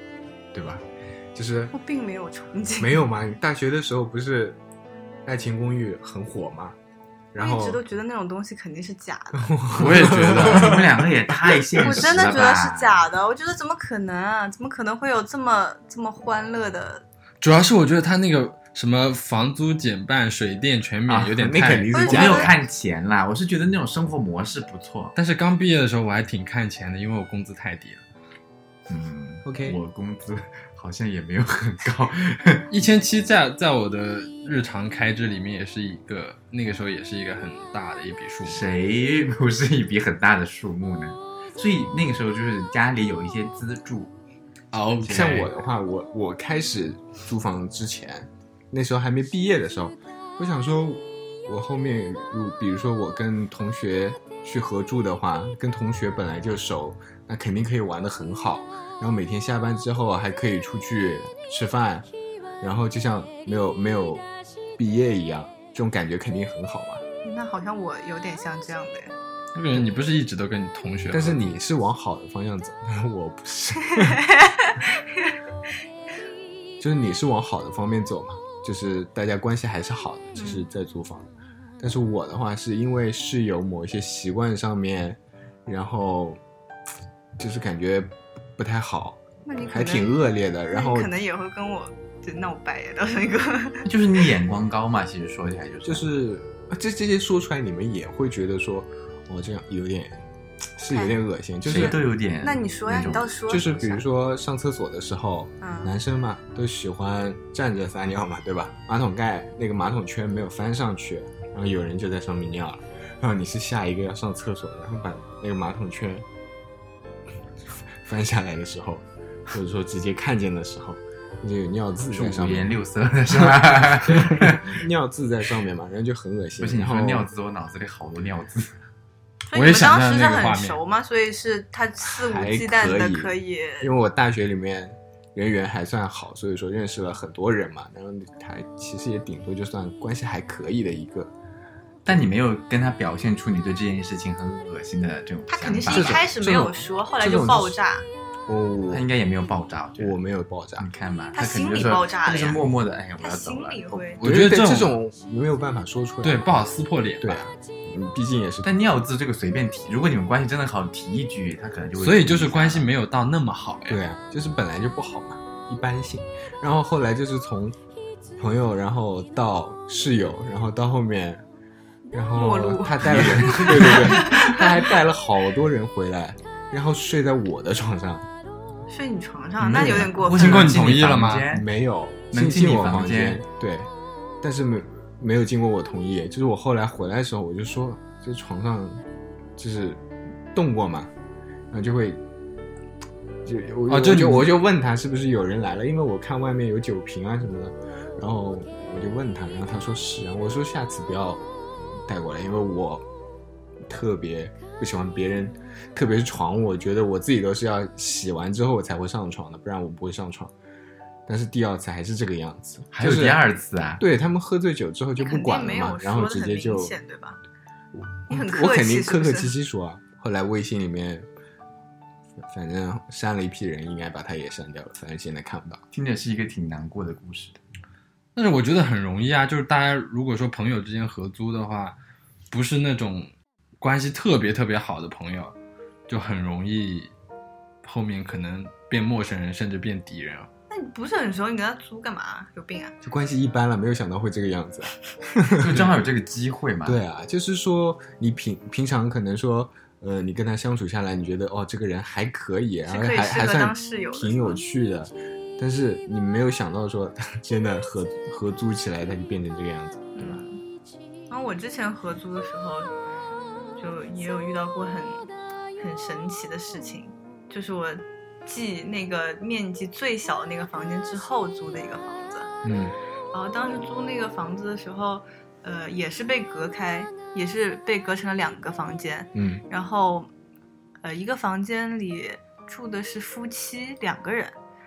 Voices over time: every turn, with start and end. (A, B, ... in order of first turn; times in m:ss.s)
0:00.5-0:01.7 A
0:01.7-0:03.0 B
0:02.8-0:04.6 A
0:05.2-0:06.8 A
0:07.3-0:07.8 A
0:07.4-0:09.5 B
0:09.3-0:11.8 A
0:09.8-0:10.7 C
0:10.1-0:13.0 D
0:11.8-0:17.0 B
0:17.4-0:22.0 C
0:21.1-0:21.3 D
0:21.3-0:22.5 A
0:21.9-0:22.5 B
0:22.0-0:25.1 D
0:25.1-0:28.0 C
0:28.9-0:32.6 D
0:29.4-0:29.8 A
0:32.7-0:38.7 C
0:38.4-0:44.1 D
0:44.7-0:45.5 C
0:45.0-0:45.4 D
0:45.1-1:02.1 A
1:02.6-1:07.0 A
1:07.2-1:09.1 B
1:09.5-1:11.5 C
1:11.1-1:14.2 A
1:14.0-1:15.4 B
1:16.8-1:26.4 A
1:20.3-1:20.6 B
1:27.4-1:31.1 A
1:29.4-1:30.1 B
1:30.7-1:33.8 B
1:33.8-1:36.0 D
1:35.8-1:40.2 A
1:40.8-1:42.0 A
1:41.6-1:44.0 D
1:41.7-1:43.8 B
1:43.5-1:56.2 A
1:45.6-1:45.9 B
1:58.0-2:02.7 A
2:02.1-2:04.7 D
2:04.0-2:07.3 A
2:06.6-2:08.7 D
2:09.5-2:13.9 B
2:09.5-2:10.8 C
2:12.1-2:21.3 A
2:22.0-2:26.2 D
2:25.5-2:28.0 B
2:25.9-2:27.8 A
2:28.5-2:29.1 A
2:28.9-2:30.2 D
2:30.0-2:30.9 A
2:30.8-2:34.1 D
2:31.3-2:32.6 B
2:33.2-2:34.2 B
2:34.2-2:35.0 C
2:34.2-2:36.6 A
2:36.2-2:37.5 C
2:37.2-2:38.7 A
2:38.6-2:42.9 D
2:42.0-2:44.0 C
2:43.9-2:47.8 A
2:48.4-2:51.4 A
2:52.1-2:58.3 A
2:52.3-2:54.6 B
2:53.1-2:53.9 D
2:58.9-3:00.6 B
2:59.6-3:01.6 D
2:59.8-3:01.5 C
3:01.5-3:03.9 A
3:02.3-3:03.4 D
3:04.4-3:09.0 A
3:09.6-3:10.0 A
3:10.5-3:11.1 A
3:11.7-3:12.2 A
3:13.4-3:21.4 A
3:13.9-3:14.5 C
3:22.0-3:23.0 A
3:23.9-3:30.5 A
3:31.3-3:33.4 A
3:32.9-3:34.0 D
3:34.0-3:36.9 A
3:35.2-3:37.4 B
3:38.3-3:41.3 A
3:38.3-3:39.5 B
3:42.4-3:45.8 A
3:45.9-3:47.6 D
3:48.4-3:52.0 C
3:52.5-3:55.5 C
3:56.1-3:57.1 C
3:57.8-4:00.5 C
4:00.7-4:02.9 B
4:03.0-4:06.0 A
4:05.6-4:07.0 D
4:06.8-4:20.4 A
4:12.8-4:14.6 B
4:20.2-4:20.6 B
4:21.3-4:22.9 B
4:23.8-4:25.2 B
4:25.8-4:32.5 B
4:32.6-4:32.9 A
4:33.3-4:40.3 B
4:39.3-4:39.6 A
4:41.0-4:44.5 B